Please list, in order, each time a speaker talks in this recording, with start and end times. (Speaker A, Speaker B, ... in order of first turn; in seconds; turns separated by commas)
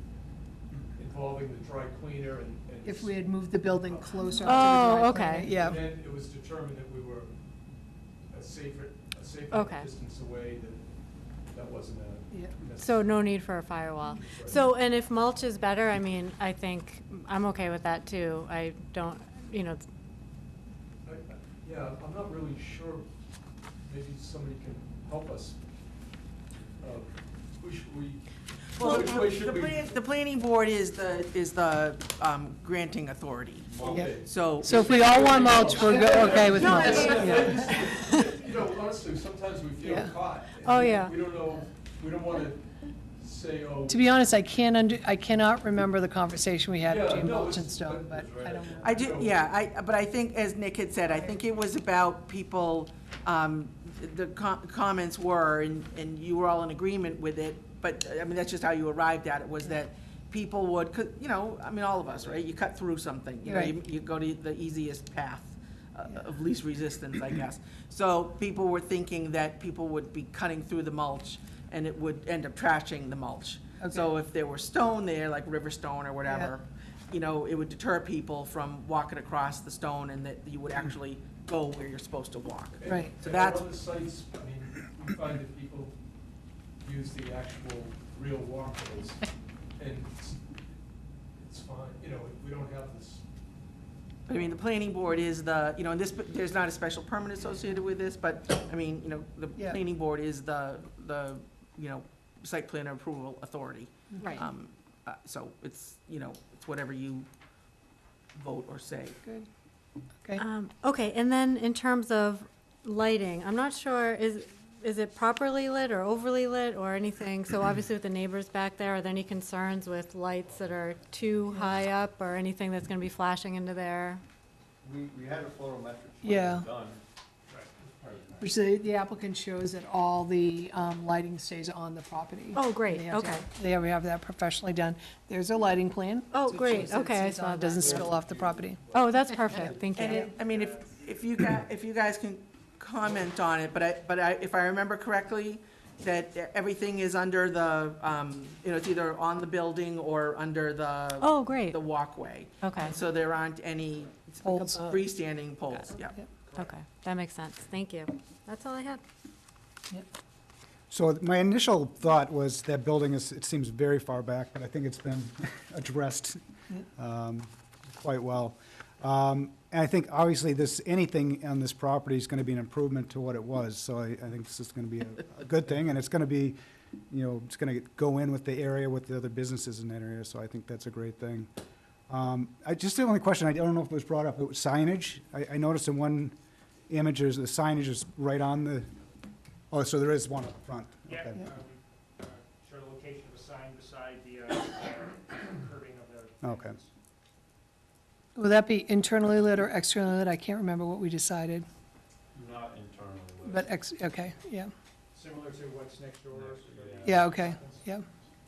Speaker A: 0.9-4.8, Speaker B: 2.9-5.8, Speaker C: 4.4-5.5, Speaker A: 5.4-7.3, Speaker A: 8.3-10.8, Speaker C: 9.5-9.9, Speaker A: 11.5-14.7, Speaker C: 12.8-19.8, Speaker A: 21.1-23.1, Speaker A: 23.9-25.6, Speaker A: 26.8-30.0, Speaker D: 28.8-35.3, Speaker E: 33.7-34.0, Speaker A: 33.8-42.7, Speaker B: 33.9-38.2, Speaker D: 36.1-37.1, Speaker E: 39.8-40.4, Speaker C: 40.6-41.2, Speaker A: 43.2-44.1, Speaker B: 43.9-49.2, Speaker A: 46.9-49.4, Speaker E: 48.0-49.1, Speaker D: 48.9-83.7, Speaker B: 63.5-63.8, Speaker B: 73.8-74.1, Speaker B: 76.3-76.5, Speaker A: 82.8-85.9, Speaker B: 82.9-83.2, Speaker A: 86.8-89.2, Speaker A: 89.8-90.4, Speaker A: 91.4-93.2, Speaker D: 94.3-107.3, Speaker D: 108.3-109.2, Speaker C: 110.4-124.2, Speaker E: 120.5-120.8, Speaker E: 124.8-127.0, Speaker B: 126.2-126.7, Speaker E: 127.8-128.6, Speaker B: 128.4-138.8, Speaker C: 132.5-133.5, Speaker C: 136.3-138.1, Speaker E: 137.8-138.8, Speaker C: 138.9-140.3, Speaker E: 139.7-140.1, Speaker D: 139.9-156.2, Speaker F: 140.1-141.0, Speaker C: 151.2-152.1, Speaker C: 152.6-153.0, Speaker B: 154.4-155.0, Speaker C: 156.5-159.0, Speaker G: 160.9-166.4, Speaker G: 167.0-176.6, Speaker G: 177.1-181.5, Speaker G: 182.1-186.3, Speaker G: 186.9-188.9, Speaker G: 189.7-191.4, Speaker F: 191.1-196.9, Speaker G: 196.4-196.7, Speaker B: 198.4-201.7, Speaker E: 202.3-203.8, Speaker B: 203.4-204.7, Speaker F: 205.1-208.0, Speaker E: 206.3-207.2, Speaker B: 207.0-208.1